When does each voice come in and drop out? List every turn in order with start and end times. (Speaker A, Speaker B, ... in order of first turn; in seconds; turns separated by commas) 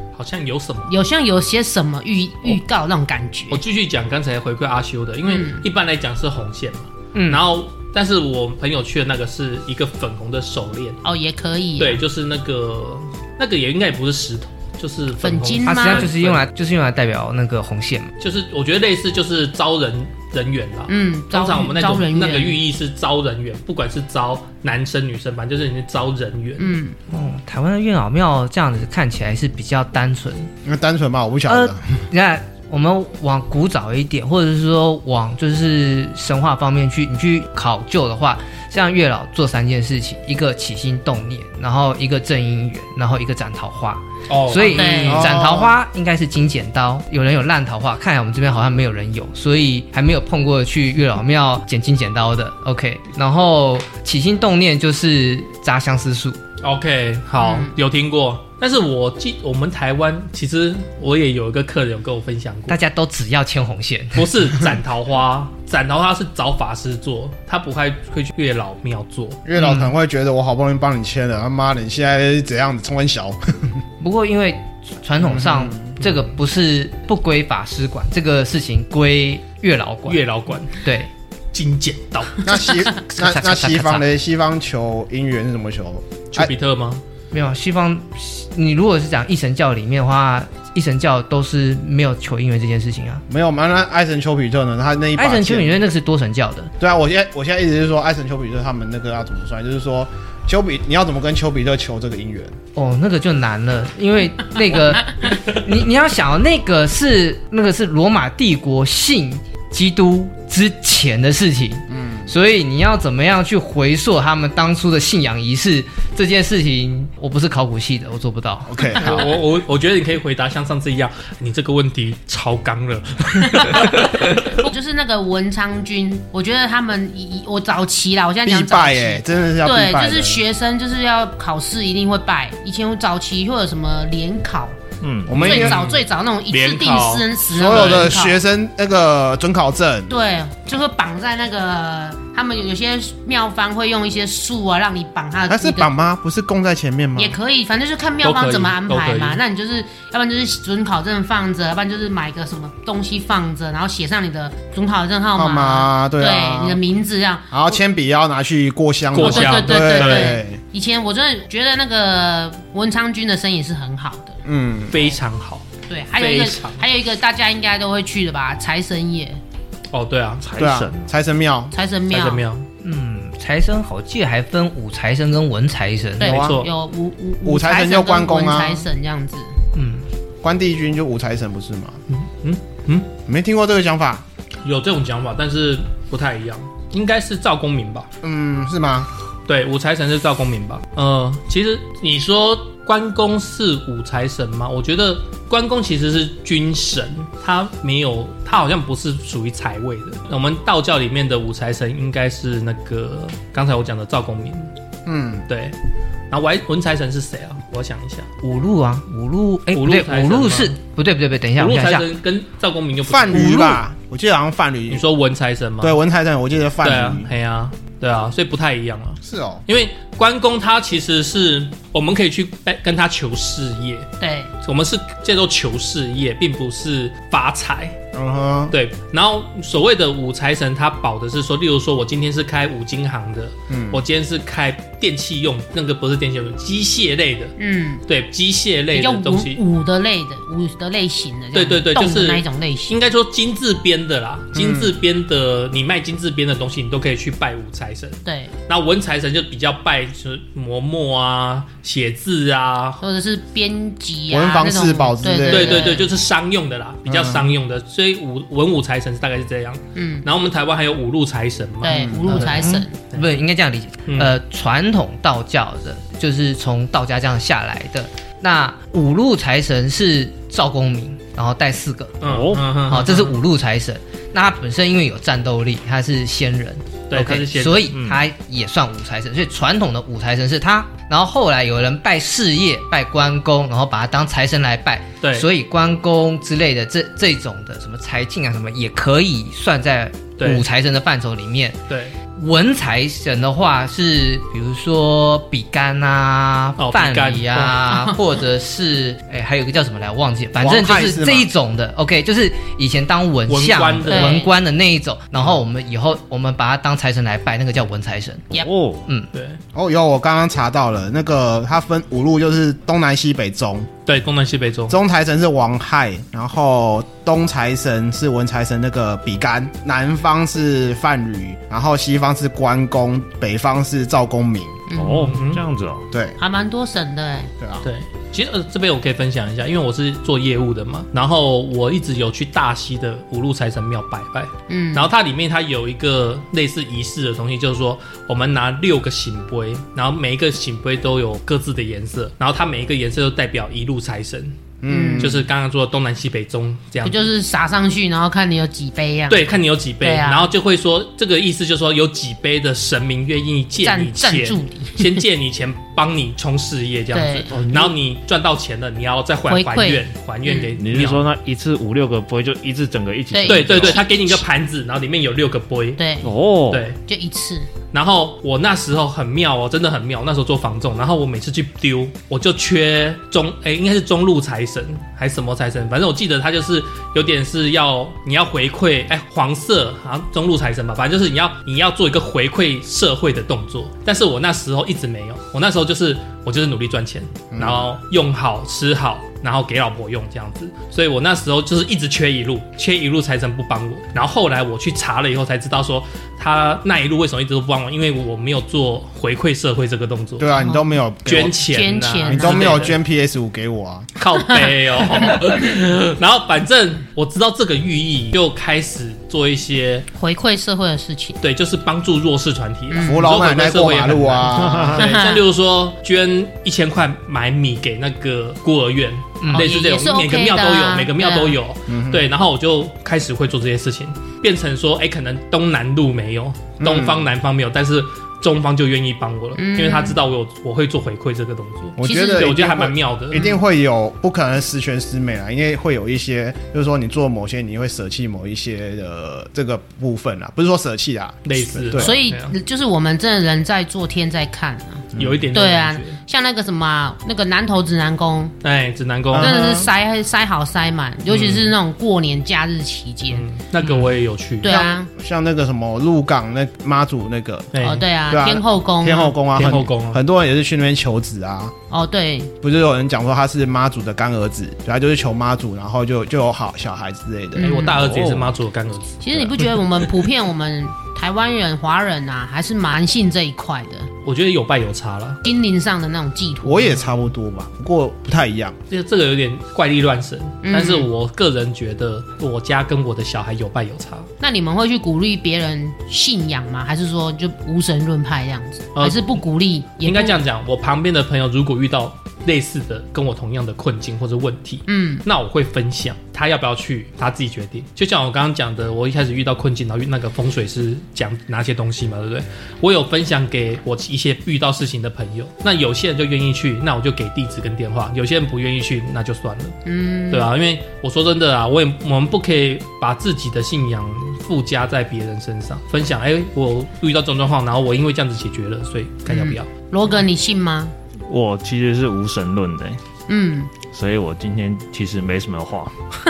Speaker A: 0.1-0.9, Speaker B: 0.9-3.6, Speaker A: 3.5-11.0, Speaker B: 5.2-5.6, Speaker C: 7.1-7.4, Speaker B: 11.0-12.0, Speaker A: 11.8-16.4, Speaker B: 15.2-16.1, Speaker C: 15.6-18.1, Speaker A: 18.2-26.8, Speaker B: 20.9-22.6, Speaker B: 26.6-26.9, Speaker C: 27.1-30.5, Speaker D: 30.6-32.0, Speaker C: 31.5-56.4, Speaker A: 44.3-45.3, Speaker B: 44.6-45.3, Speaker D: 45.1-45.7, Speaker A: 56.6-62.8, Speaker B: 57.4-57.7, Speaker C: 62.7-64.3, Speaker A: 64.1-69.4, Speaker D: 69.4-73.8, Speaker C: 69.6-69.9, Speaker C: 74.0-81.1, Speaker D: 75.2-76.0, Speaker A: 80.1-80.8, Speaker A: 81.5-82.5, Speaker D: 82.4-86.5, Speaker C: 83.2-84.0, Speaker A: 86.3-87.0, Speaker C: 87.3-93.2, Speaker D: 93.3-95.8, Speaker C: 95.2-96.7, Speaker D: 96.8-102.5, Speaker C: 102.7-119.0, Speaker D: 111.9-112.3, Speaker D: 118.7-119.3, Speaker A: 118.9-124.7, Speaker B: 123.5-124.0, Speaker B: 124.5-134.8, Speaker D: 128.4-130.4, Speaker E: 135.0-135.3, Speaker D: 135.3-135.8, Speaker B: 135.3-138.4, Speaker A: 135.4-138.1, Speaker D: 137.5-140.1, Speaker B: 140.1-145.9, Speaker D: 145.5-147.3, Speaker B: 147.2-157.8, Speaker A: 148.2-149.4, Speaker D: 155.3-156.8, Speaker D: 157.5-160.6, Speaker A: 159.1-160.4, Speaker B: 159.2-164.4, Speaker D: 164.4-165.0, Speaker A: 164.9-165.6, Speaker B: 165.9-169.4, Speaker A: 166.2-166.8, Speaker A: 169.9-170.4, Speaker E: 170.4-171.1, Speaker D: 170.6-171.7, Speaker B: 171.7-172.4, Speaker A: 172.1-172.7, Speaker C: 172.8-176.3, Speaker B: 176.2-179.5, Speaker D: 176.2-176.6, Speaker A: 176.2-176.7, Speaker D: 177.4-178.9, Speaker C: 179.7-180.0, Speaker D: 180.4-182.0, Speaker A: 182.1-183.1, Speaker D: 183.3-184.2, Speaker A: 184.6-188.1, Speaker D: 188.2-189.1, Speaker A: 189.5-204.7, Speaker D: 205.1-205.4, Speaker A: 205.5-205.8, Speaker A: 206.3-208.3, Speaker C: 208.4-212.1, Speaker A: 209.7-210.8, Speaker A: 211.6-213.8, Speaker D: 213.0-215.0, Speaker C: 213.4-213.7, Speaker A: 214.9-216.0, Speaker D: 215.8-217.3, Speaker A: 216.8-224.1, Speaker D: 219.2-219.6, Speaker B: 224.2-224.5, Speaker A: 224.6-227.9, Speaker D: 228.1-228.7, Speaker A: 228.7-237.6, Speaker D: 233.7-234.0, Speaker B: 237.6-238.0, Speaker A: 238.1-239.6, Speaker B: 238.9-243.0, Speaker A: 241.5-253.0, Speaker D: 244.5-244.9, Speaker B: 248.2-248.5, Speaker B: 253.0-256.1, Speaker D: 254.3-256.0, Speaker A: 255.5-263.2, Speaker D: 257.1-257.5, Speaker B: 259.9-260.2, Speaker B: 261.8-262.9, Speaker D: 261.9-262.4, Speaker C: 262.3-272.2, Speaker A: 264.1-264.3, Speaker A: 272.2-273.4, Speaker E: 272.2-272.8, Speaker C: 272.9-291.8, Speaker A: 277.1-277.9, Speaker E: 277.9-278.2, Speaker A: 285.2-285.5, Speaker A: 290.4-290.6, Speaker A: 291.9-292.1, Speaker C: 292.4-308.5, Speaker A: 296.8-297.9, Speaker D: 300.6-301.5, Speaker A: 303.5-304.4, Speaker B: 304.1-304.5, Speaker E: 308.6-309.1, Speaker A: 309.3-309.6, Speaker D: 309.7-313.9, Speaker A: 314.1-315.0, Speaker D: 314.9-324.8, Speaker B: 324.9-325.4, Speaker E: 324.9-326.1, Speaker A: 325.3-325.6, Speaker D: 326.1-326.4, Speaker B: 326.4-327.5, Speaker D: 327.6-327.9, Speaker A: 327.8-344.6, Speaker B: 334.7-335.1, Speaker D: 344.8-345.4, Speaker B: 344.9-345.3, Speaker A: 345.2-347.3, Speaker B: 347.0-349.5, Speaker A: 349.3-361.2, Speaker B: 350.0-350.5, Speaker B: 353.8-355.2, Speaker B: 357.1-357.5, Speaker E: 357.5-357.9, Speaker B: 359.5-360.7, Speaker E: 360.8-364.0, Speaker B: 363.3-364.4, Speaker A: 363.5-366.0, Speaker B: 366.0-366.3, Speaker E: 366.2-366.9, Speaker A: 366.7-367.0, Speaker B: 367.1-367.7, Speaker A: 367.9-400.5, Speaker D: 387.5-387.9, Speaker D: 400.4-401.6, Speaker B: 400.6-400.9, Speaker A: 401.2-403.0, Speaker B: 401.5-402.9, Speaker D: 402.2-404.1, Speaker A: 404.2-410.1, Speaker B: 404.5-405.4, Speaker B: 410.1-411.4, Speaker A: 411.4-433.4, Speaker B: 412.9-413.2, Speaker D: 413.0-415.1, Speaker B: 414.9-415.4, Speaker C: 419.4-419.7, Speaker B: 419.5-421.6, Speaker D: 421.9-422.3, Speaker D: 426.8-427.3, Speaker B: 429.6-430.2, Speaker D: 432.0-442.1, Speaker B: 433.3-433.6, Speaker A: 441.4-442.5, Speaker B: 441.9-448.5, Speaker A: 445.1-446.2, Speaker D: 445.1-445.4, Speaker A: 448.6-449.7, Speaker D: 449.3-449.9, Speaker B: 449.4-453.5, Speaker A: 451.3-451.7, Speaker A: 453.3-454.8, Speaker B: 454.6-455.1, Speaker D: 454.6-461.7, Speaker A: 457.7-458.1, Speaker B: 457.8-459.4, Speaker A: 459.5-460.2, Speaker B: 461.9-462.5, Speaker D: 462.6-467.9, Speaker B: 467.5-468.0, Speaker A: 467.6-470.1, Speaker E: 467.9-468.5, Speaker B: 469.2-474.1, Speaker A: 474.2-475.4, Speaker B: 475.4-477.2, Speaker D: 476.6-478.8, Speaker A: 478.9-484.3, Speaker B: 480.6-481.1, Speaker B: 484.4-490.4, Speaker A: 488.9-489.4, Speaker A: 490.0-509.8, Speaker B: 494.9-495.2, Speaker B: 509.9-510.5, Speaker A: 510.3-519.7, Speaker B: 519.3-520.9, Speaker E: 521.2-523.0, Speaker B: 523.3-523.7, Speaker E: 523.8-525.9